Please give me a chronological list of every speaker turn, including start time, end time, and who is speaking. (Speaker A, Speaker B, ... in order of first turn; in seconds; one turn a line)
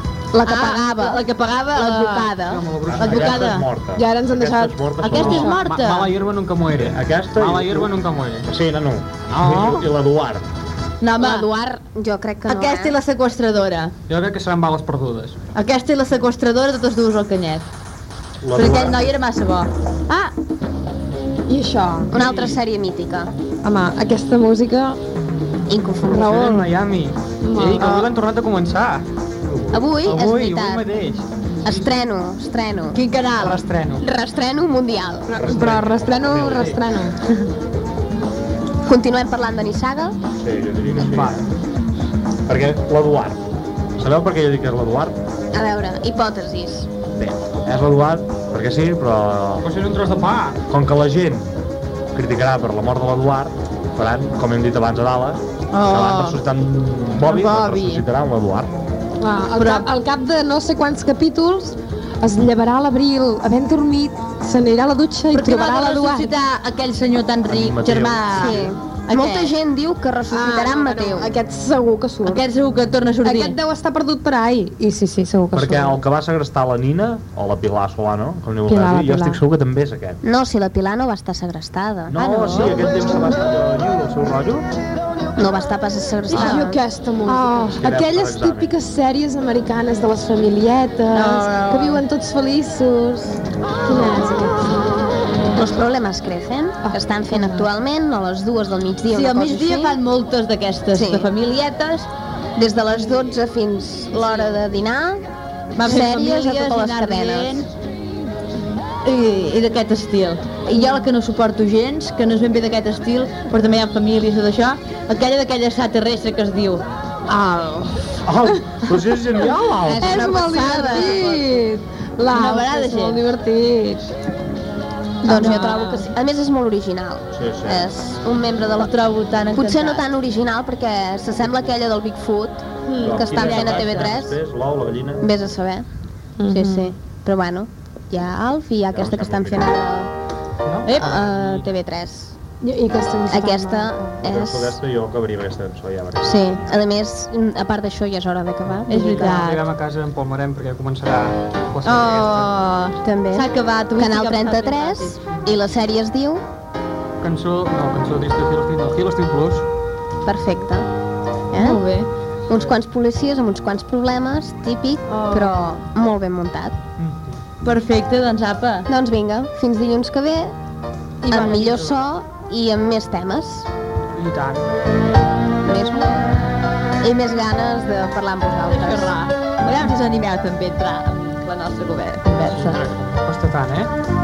Speaker A: 0.3-2.6
Speaker B: 0.4-2.4
Speaker C: 2.4-3.6
Speaker D: 2.9-5.5
Speaker B: 3.0-3.7
Speaker E: 4.0-5.6
Speaker B: 5.0-6.1
Speaker C: 5.5-8.5
Speaker D: 6.7-7.9
Speaker D: 8.4-10.4
Speaker C: 9.3-9.9
Speaker B: 11.0-11.5
Speaker A: 11.2-13.0
Speaker B: 12.5-13.9
Speaker C: 14.1-15.4
Speaker B: 15.6-17.7
Speaker D: 18.4-19.1
Speaker B: 18.6-20.3
Speaker E: 21.5-22.2
Speaker A: 22.1-23.3
Speaker E: 23.6-25.0
Speaker A: 25.7-26.7
Speaker C: 26.0-31.9
Speaker E: 26.1-26.5
Speaker E: 27.4-28.1
Speaker A: 29.7-30.9
Speaker A: 31.6-33.0
Speaker B: 32.9-33.6
Speaker C: 33.4-34.0
Speaker A: 34.0-35.4
Speaker E: 35.3-37.2
Speaker D: 35.3-36.8
Speaker C: 36.4-36.8
Speaker A: 38.9-40.2
Speaker D: 40.4-41.4
Speaker C: 40.9-41.4
Speaker D: 42.5-43.4
Speaker D: 44.0-45.2
Speaker A: 45.5-46.9
Speaker D: 47.2-49.7
Speaker C: 49.6-50.6
Speaker D: 50.7-51.5
Speaker D: 52.1-58.7
Speaker B: 55.7-56.4
Speaker B: 57.2-58.0
Speaker E: 59.2-66.3
Speaker B: 59.5-59.9
Speaker B: 65.3-69.5
Speaker D: 67.5-68.7
Speaker A: 68.3-71.3
Speaker E: 70.3-72.4
Speaker B: 72.2-73.6
Speaker E: 73.2-76.0
Speaker D: 75.5-80.2
Speaker E: 78.7-79.4
Speaker A: 80.2-82.9
Speaker D: 82.1-84.6
Speaker E: 82.5-82.8
Speaker A: 85.4-86.8
Speaker E: 86.3-94.8
Speaker B: 86.3-86.7
Speaker D: 87.7-88.7
Speaker B: 91.1-92.0
Speaker A: 95.5-100.0
Speaker E: 96.8-97.7
Speaker B: 99.1-102.1
Speaker A: 100.9-101.3
Speaker A: 102.6-105.3
Speaker B: 104.2-104.5
Speaker B: 105.8-107.7
Speaker A: 105.8-107.7
Speaker B: 109.0-116.8
Speaker E: 117.3-117.8
Speaker D: 118.2-120.2
Speaker A: 119.8-121.5
Speaker E: 120.0-124.1
Speaker B: 120.2-121.4
Speaker B: 122.3-123.2
Speaker A: 125.2-128.9
Speaker B: 125.3-126.0
Speaker E: 125.3-126.1
Speaker D: 127.3-127.8
Speaker B: 128.8-130.1
Speaker A: 129.5-134.4
Speaker B: 132.9-134.2
Speaker D: 133.0-135.2
Speaker A: 135.2-135.9
Speaker E: 136.4-136.9
Speaker A: 136.5-140.1
Speaker D: 138.9-139.7
Speaker C: 140.6-141.7
Speaker A: 140.8-142.4
Speaker E: 142.6-144.2
Speaker A: 143.3-144.8
Speaker D: 144.2-146.7
Speaker A: 146.2-149.4
Speaker C: 148.8-152.5
Speaker B: 148.9-149.6
Speaker B: 151.8-155.3
Speaker A: 153.0-156.4
Speaker C: 157.2-159.6
Speaker A: 160.2-160.9
Speaker A: 161.5-161.8
Speaker B: 161.6-162.1
Speaker C: 162.5-162.7
Speaker A: 162.5-166.8
Speaker B: 165.1-165.7
Speaker B: 167.6-168.9
Speaker A: 168.9-170.6
Speaker E: 171.3-171.9
Speaker A: 171.3-173.7
Speaker C: 171.3-171.8
Speaker C: 174.1-174.7
Speaker A: 175.6-176.3
Speaker A: 177.0-179.1
Speaker B: 178.7-182.8
Speaker C: 182.4-183.9